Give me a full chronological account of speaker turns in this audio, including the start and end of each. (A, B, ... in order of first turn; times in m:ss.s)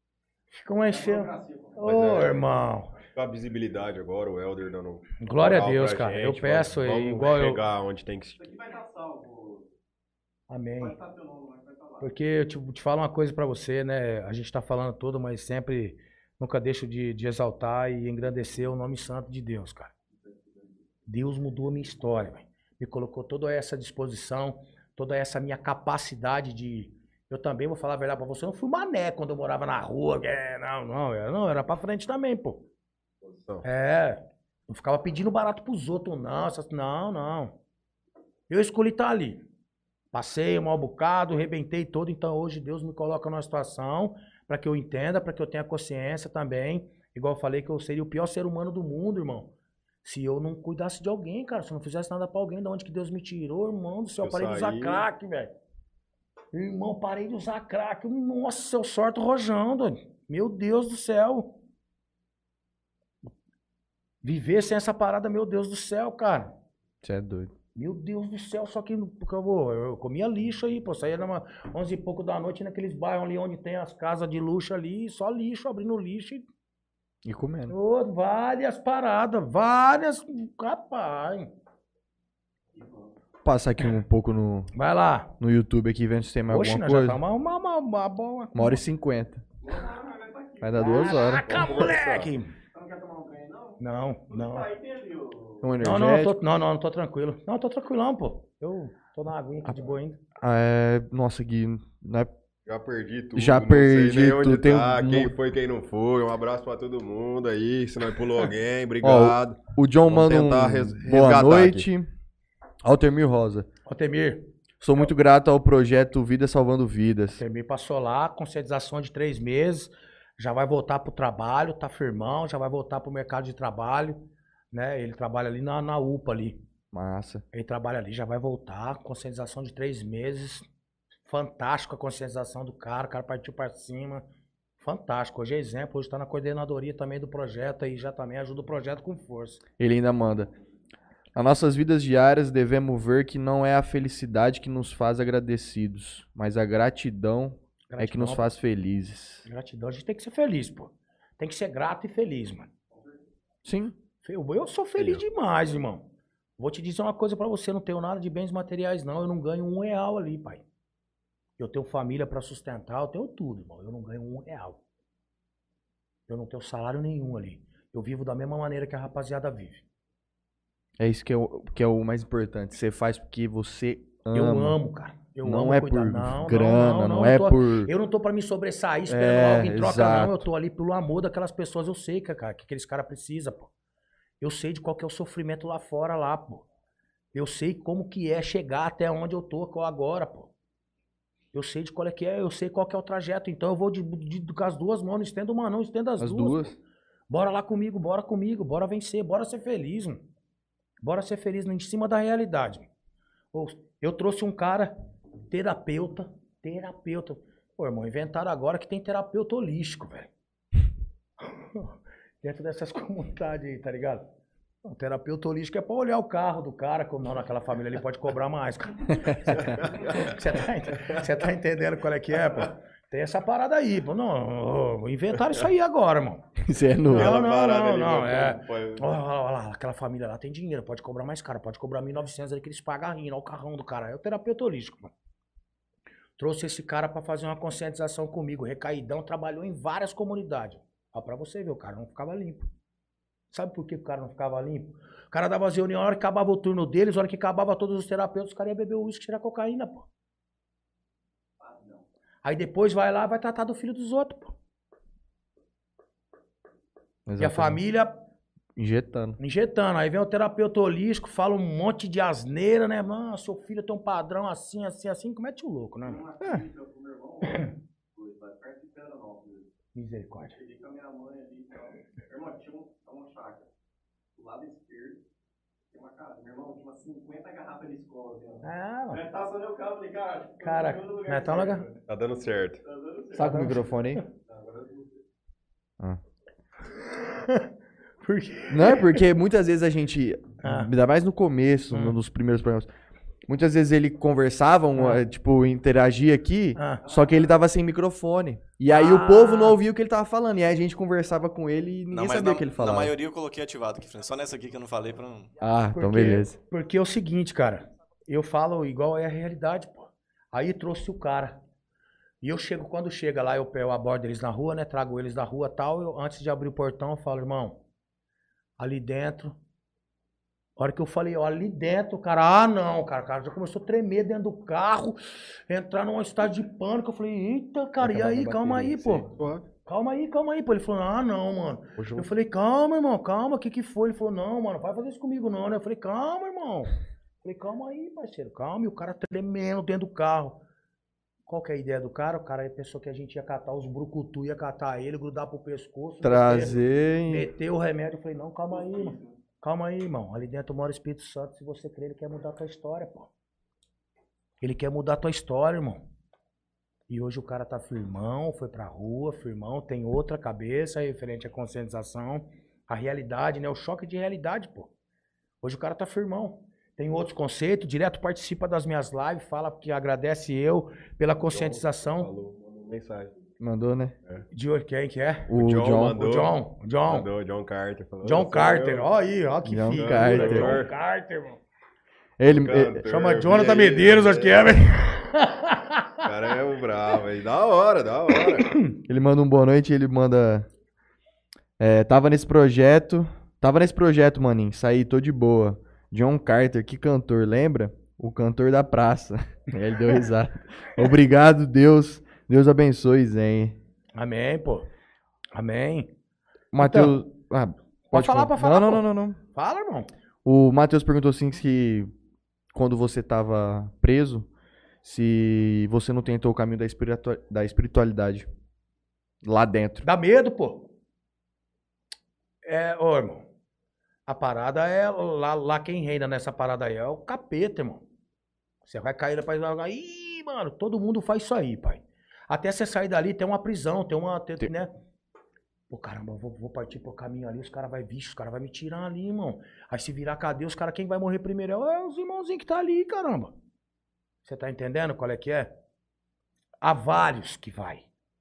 0:00.5-0:02.9 A
0:00.9-0:01.8 B
0:01.8-0:02.5 C
0:03.1-0:08.5 C
0:05.2-0:07.6 A
0:08.4-0:09.7 B
0:10.5-0:11.0 A
0:10.8-0:12.1 B
0:12.0-0:19.9 A
0:20.2-0:20.6 B
0:21.1-0:32.6 A
0:33.2-0:33.6 C
0:33.6-0:37.6 A
0:38.5-0:39.4 A
0:40.1-0:49.5 A
0:50.0-0:55.5 A
0:54.2-0:55.0 C
0:56.5-1:01.5 A
1:04.2-1:06.5 A
1:07.0-1:07.5 D
1:07.8-1:16.5 A
1:17.2-1:17.8 D
1:17.7-1:21.5 A
1:22.8-1:23.1 B
1:23.4-1:24.7 D
1:24.7-1:25.4 A
1:25.4-1:27.2 D
1:26.5-1:28.8 A
1:28.5-1:29.4 D
1:29.6-1:31.8 B
1:30.6-1:31.4 D
1:30.8-1:32.5 A
1:31.5-1:32.3 C
1:32.7-1:35.6 B
1:33.8-1:34.7 A
1:35.6-1:36.4 D
1:35.8-1:40.2 A
1:40.4-1:42.3 D
1:42.6-1:51.9 C
1:43.4-1:45.4 D
1:49.0-1:52.1 D
1:52.8-1:53.7 D
1:53.9-1:54.5 A
1:54.8-1:57.4 D
1:57.4-2:06.6 A
2:06.9-2:07.4 D
2:07.5-2:10.7 A
2:11.3-2:14.2 A
2:14.8-2:19.6 A
2:19.8-2:20.5 D
2:21.4-2:29.5 D
2:27.9-2:28.5 A
2:29.4-2:32.7 A
2:32.9-2:33.2 B
2:33.6-2:34.0 D
2:34.2-2:40.6 A
2:35.0-2:35.2 C
2:41.6-2:44.8 A
2:46.3-2:49.8 A
2:51.0-2:54.8 D
2:54.3-3:03.7 A
2:55.4-2:57.9 D
2:59.1-3:00.4 D
3:04.4-3:06.7 A
3:07.3-3:10.5 A
3:11.5-3:16.8 A
3:16.2-3:16.8 D
3:17.3-3:20.2 A
3:21.0-3:22.9 A
3:23.5-3:24.9 A
3:25.5-3:30.3 A
3:31.5-3:34.3 A
3:34.8-3:46.5 A
3:39.2-3:39.8 D
3:46.6-3:47.4 D
3:47.1-3:55.1 A
3:47.1-3:49.1 C
3:56.4-4:02.7 A
4:03.5-4:10.1 A
4:11.6-4:12.0 B
4:12.4-4:14.6 A
4:17.3-4:17.8 D
4:17.4-4:18.1 A
4:18.8-4:19.4 D
4:19.4-4:26.2 A
4:26.0-4:29.7 B
4:30.0-4:30.6 A
4:30.5-4:33.7 B
4:34.4-4:35.2 B
4:35.9-4:42.0 B
4:38.6-4:39.2 A
4:40.6-4:41.9 A
4:42.1-4:42.8 C
4:42.8-4:43.8 B
4:43.3-4:44.2 D
4:43.4-4:44.2 A
4:44.5-4:45.1 B
4:47.2-4:47.7 A
4:48.2-4:49.2 A
4:48.7-4:52.9 D
4:50.6-4:50.9 A
4:51.9-4:52.2 A
4:53.5-5:03.1 D
4:56.8-4:57.0 A
4:57.1-4:57.5 B
4:58.9-4:59.8 A
5:02.1-5:05.5 E
5:05.6-5:06.6 D
5:05.9-5:11.6 A
5:12.4-5:17.8 A
5:18.8-5:19.6 A
5:20.8-5:29.3 A
5:28.0-5:29.3 D
5:29.3-5:29.7 C
5:29.9-5:40.6 A
5:32.0-5:32.3 C
5:41.5-5:46.8 A
5:46.2-5:47.5 D
5:47.3-5:53.3 A
5:48.7-5:49.4 B
5:54.6-5:56.1 A
5:57.1-6:04.9 A
6:05.6-6:12.3 A
6:11.5-6:13.3 C
6:13.6-6:14.1 D
6:14.5-6:15.6 A
6:15.5-6:16.2 D
6:15.5-6:16.6 C
6:16.1-6:17.3 A
6:17.1-6:19.1 C
6:18.2-6:21.6 A
6:19.6-6:20.8 D
6:19.9-6:20.9 C
6:22.4-6:23.0 D
6:22.4-6:24.8 C
6:23.0-6:26.3 A
6:26.2-6:28.8 C
6:28.4-6:29.0 A
6:29.0-6:30.7 D
6:31.8-6:43.8 D
6:44.2-6:44.9 A
6:45.5-6:46.1 A
6:46.7-6:49.4 D
6:46.8-6:47.2 A
6:48.1-6:50.1 A
6:50.4-6:52.1 D
6:52.7-6:54.5 D
6:55.0-6:58.5 D
6:59.4-7:00.1 D
7:00.0-7:00.9 A
7:02.6-7:03.5 A
7:04.3-7:08.0 A
7:08.8-7:14.9 A
7:15.9-7:23.5 A
7:24.4-7:25.7 A
7:26.8-7:28.0 A